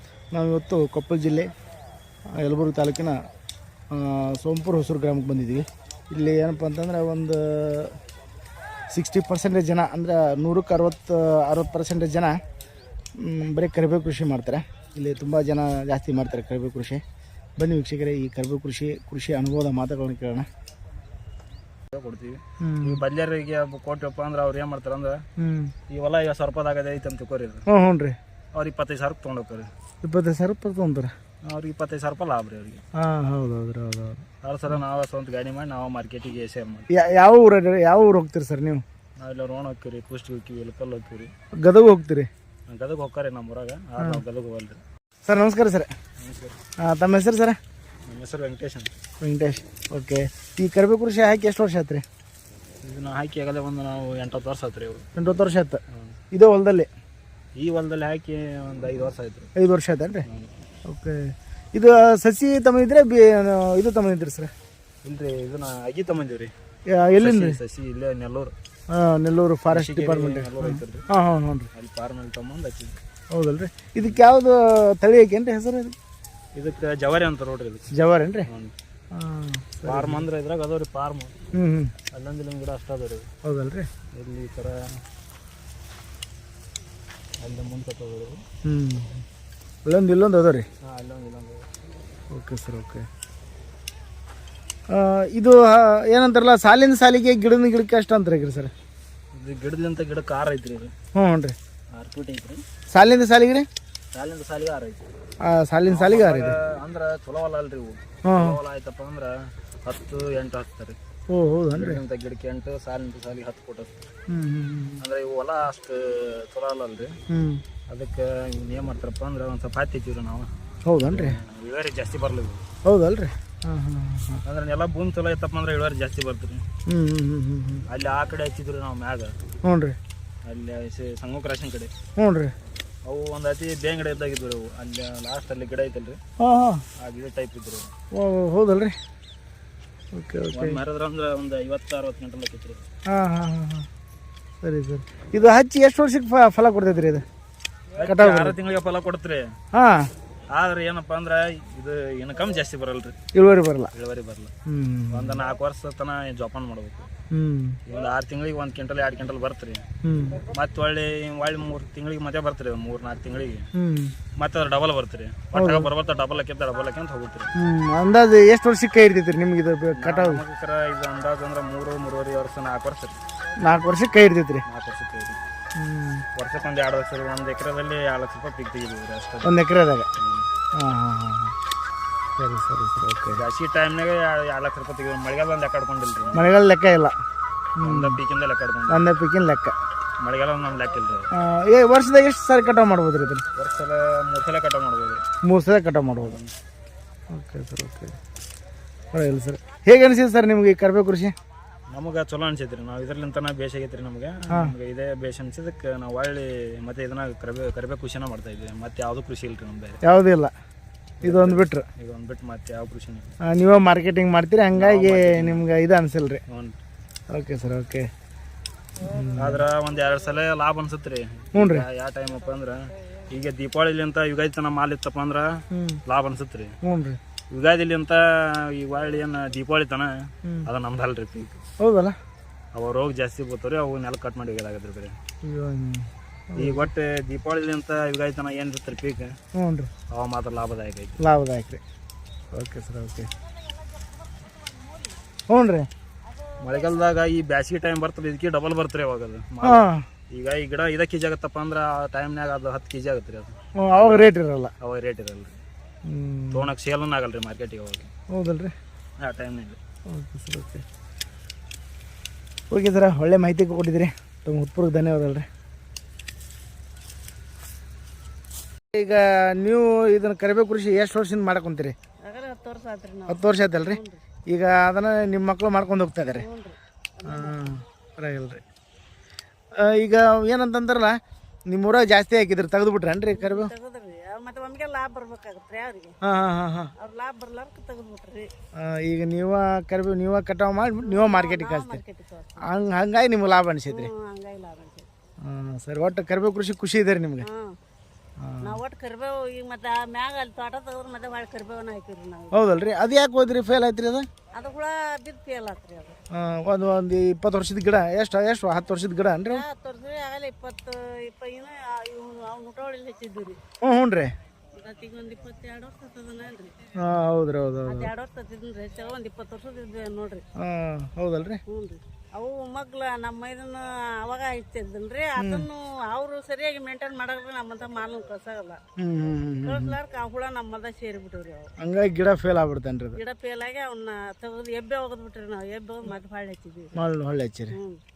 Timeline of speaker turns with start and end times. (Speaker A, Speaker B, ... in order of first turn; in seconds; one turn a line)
Speaker A: 0.3-1.5
Speaker A: 2.3-3.2
Speaker A: 3.9-8.0
Speaker A: 8.9-12.4
Speaker A: 13.1-17.0
Speaker A: 17.6-20.5
Speaker B: 21.9-25.2
Speaker A: 22.6-23.0
Speaker A: 25.4-25.7
Speaker B: 25.9-27.6
Speaker A: 27.7-28.2
Speaker B: 28.5-29.7
Speaker A: 30.0-31.1
Speaker B: 31.4-32.8
Speaker A: 32.9-34.2
Speaker B: 34.4-36.9
Speaker A: 36.9-38.8
Speaker B: 39.2-41.3
Speaker A: 41.6-42.3
Speaker B: 42.7-44.8
Speaker A: 45.2-45.9
Speaker B: 46.2-46.6
Speaker A: 46.8-47.5
Speaker B: 48.1-48.9
Speaker A: 49.2-52.0
Speaker B: 52.8-55.0
Speaker A: 55.1-55.8
Speaker B: 55.9-56.2
Speaker A: 56.3-56.9
Speaker B: 57.5-59.5
Speaker A: 59.5-60.3
Speaker B: 60.2-60.5
Speaker A: 60.8-64.5
Speaker B: 65.0-66.5
Speaker A: 66.9-67.6
Speaker B: 67.2-68.5
Speaker A: 68.9-71.7
Speaker B: 69.7-71.0
Speaker B: 71.7-73.0
Speaker A: 73.3-75.9
Speaker B: 76.5-77.9
Speaker A: 77.9-78.5
Speaker B: 78.5-78.7
Speaker A: 79.1-80.2
Speaker B: 79.8-81.3
Speaker A: 81.5-81.9
Speaker B: 82.1-83.3
Speaker A: 83.4-83.9
Speaker B: 84.1-85.0
Speaker B: 87.4-88.4
Speaker A: 88.6-89.2
Speaker A: 89.8-90.7
Speaker B: 90.9-91.7
Speaker A: 92.3-93.1
Speaker A: 94.9-98.7
Speaker B: 99.3-100.9
Speaker A: 101.1-101.5
Speaker B: 101.9-102.6
Speaker A: 102.9-103.7
Speaker B: 104.1-105.0
Speaker A: 105.4-106.5
Speaker B: 105.9-109.3
Speaker A: 108.2-108.6
Speaker B: 109.8-111.0
Speaker A: 111.3-112.0
Speaker B: 111.7-114.0
Speaker A: 114.3-115.0
Speaker B: 115.0-117.1
Speaker A: 117.3-117.6
Speaker B: 117.9-122.6
Speaker A: 120.8-121.4
Speaker A: 122.8-124.4
Speaker B: 124.4-126.6
Speaker A: 126.8-127.8
Speaker B: 127.9-129.3
Speaker A: 129.6-129.9
Speaker B: 130.4-131.9
Speaker A: 132.2-132.5
Speaker B: 133.1-136.2
Speaker A: 136.4-136.8
Speaker B: 137.0-137.9
Speaker A: 138.1-138.9
Speaker A: 140.1-140.8
Speaker B: 140.5-142.8
Speaker A: 143.1-143.9
Speaker A: 144.6-147.2
Speaker B: 148.0-149.4
Speaker A: 148.0-148.6
Speaker A: 149.7-150.1
Speaker B: 150.5-153.2
Speaker A: 153.3-153.9
Speaker B: 153.9-154.5
Speaker A: 154.7-155.4
Speaker B: 155.1-157.1
Speaker A: 157.3-157.8
Speaker B: 157.9-159.8
Speaker A: 160.0-160.4
Speaker B: 160.5-163.7
Speaker A: 163.7-164.2
Speaker B: 164.4-167.5
Speaker A: 165.5-165.9
Speaker A: 167.6-170.4
Speaker B: 169.9-173.2
Speaker A: 173.6-174.6
Speaker B: 174.7-175.4
Speaker A: 175.8-176.2
Speaker B: 176.3-179.6
Speaker A: 179.4-180.1
Speaker B: 180.2-180.5
Speaker A: 180.8-181.5
Speaker A: 182.4-183.4
Speaker B: 183.3-186.5
Speaker A: 186.3-187.1
Speaker A: 187.8-188.2
Speaker B: 187.8-189.1
Speaker A: 188.9-189.7
Speaker B: 190.2-191.3
Speaker A: 191.3-193.4
Speaker B: 193.6-195.2
Speaker A: 195.4-196.4
Speaker B: 196.2-196.5
Speaker A: 197.3-198.2
Speaker A: 199.1-201.3
Speaker B: 201.9-210.0
Speaker A: 210.0-210.5
Speaker B: 211.2-213.3
Speaker A: 211.2-211.8
Speaker A: 213.4-216.4
Speaker B: 214.7-215.7
Speaker B: 216.5-216.8
Speaker A: 217.3-218.1
Speaker A: 219.0-219.7
Speaker B: 219.3-226.7
Speaker A: 221.5-221.8
Speaker A: 225.7-226.0
Speaker A: 226.8-227.2
Speaker B: 227.5-231.6
Speaker A: 231.8-232.2
Speaker B: 232.7-235.2
Speaker A: 235.4-236.9
Speaker B: 236.6-239.3
Speaker A: 239.5-239.9
Speaker B: 240.1-241.2
Speaker A: 241.2-241.8
Speaker A: 242.5-243.3
Speaker A: 245.5-245.9
Speaker B: 246.6-255.6
Speaker A: 249.6-250.1
Speaker A: 253.8-254.7
Speaker A: 256.0-256.7
Speaker B: 256.5-258.1
Speaker A: 258.3-258.7
Speaker B: 259.2-259.8
Speaker A: 260.1-260.8
Speaker A: 262.7-265.5
Speaker A: 268.9-271.9
Speaker C: 272.2-274.2
Speaker A: 273.3-276.4
Speaker C: 276.3-277.6
Speaker A: 277.3-278.6
Speaker A: 279.7-283.7
Speaker C: 283.3-286.1
Speaker A: 286.2-286.9
Speaker C: 287.0-288.5
Speaker A: 288.7-292.0
Speaker C: 291.0-292.7
Speaker A: 292.6-294.1
Speaker C: 293.9-295.1
Speaker A: 295.4-297.5
Speaker C: 297.4-297.8
Speaker A: 298.4-298.7
Speaker C: 298.6-302.6
Speaker A: 302.5-304.3
Speaker C: 304.5-306.2
Speaker A: 306.3-309.6
Speaker C: 309.4-313.6
Speaker A: 313.8-314.3
Speaker C: 314.7-316.9
Speaker A: 317.0-318.1
Speaker C: 317.9-320.4
Speaker A: 320.6-321.6
Speaker C: 321.7-328.8
Speaker A: 325.4-325.7
Speaker A: 329.0-330.0
Speaker C: 329.6-331.7
Speaker A: 331.8-333.2
Speaker C: 333.1-336.9
Speaker A: 336.9-337.8
Speaker C: 337.7-338.0